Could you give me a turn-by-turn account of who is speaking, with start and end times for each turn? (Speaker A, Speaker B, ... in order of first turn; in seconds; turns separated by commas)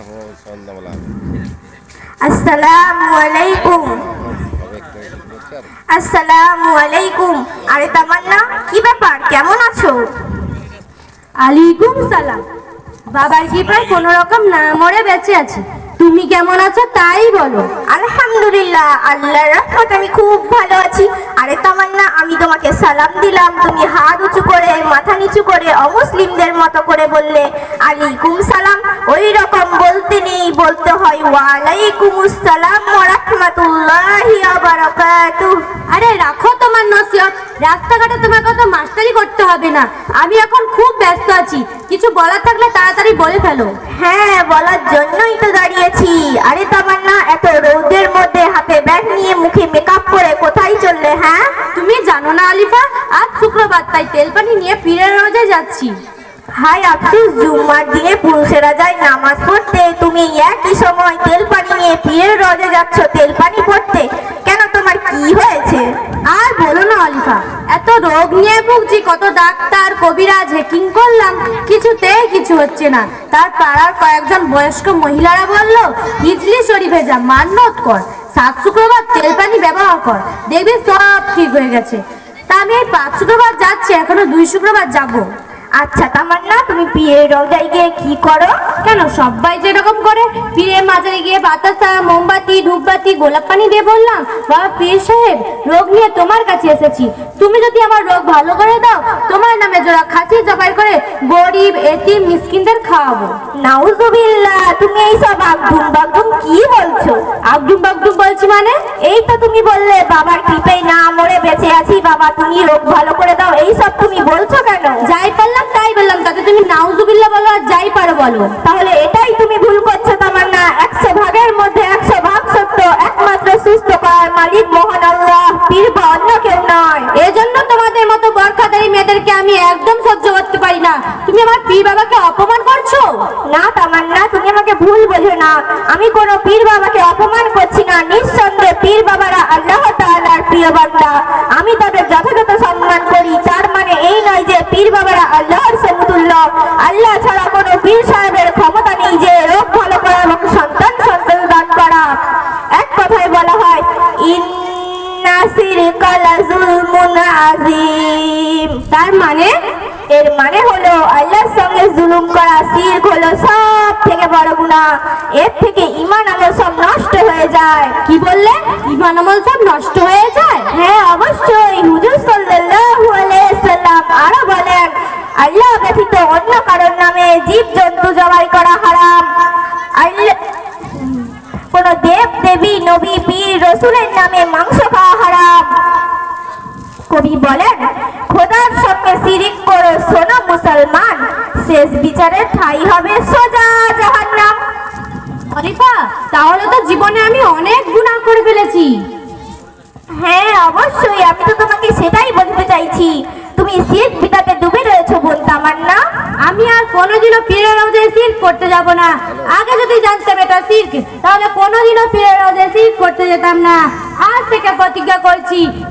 Speaker A: 2.2-4.0, Speaker A: 5.9-10.0, Speaker B: 11.4-12.4, Speaker B: 13.1-17.7, Speaker A: 17.9-35.6, Speaker B: 35.9-43.7, Speaker A: 43.9-51.5, Speaker B: 51.7-56.0, Speaker A: 56.5-65.9, Speaker B: 66.3-85.3, Speaker A: 85.8-88.6, Speaker B: 88.8-103.3, Speaker A: 103.5-107.2, Speaker B: 107.5-108.8, Speaker A: 109.0-115.0, Speaker B: 115.0-118.5, Speaker A: 118.6-127.1, Speaker B: 127.1-133.3, Speaker A: 133.4-152.2, Speaker A: 152.7-158.8, Speaker B: 158.9-159.5, Speaker A: 160.1-168.0, Speaker B: 168.1-170.7, Speaker A: 170.7-179.3, Speaker A: 180.0-180.4, Speaker A: 180.9-185.7, Speaker A: 187.1-194.6, Speaker B: 195.5-199.0, Speaker A: 200.1-206.0, Speaker B: 206.4-215.7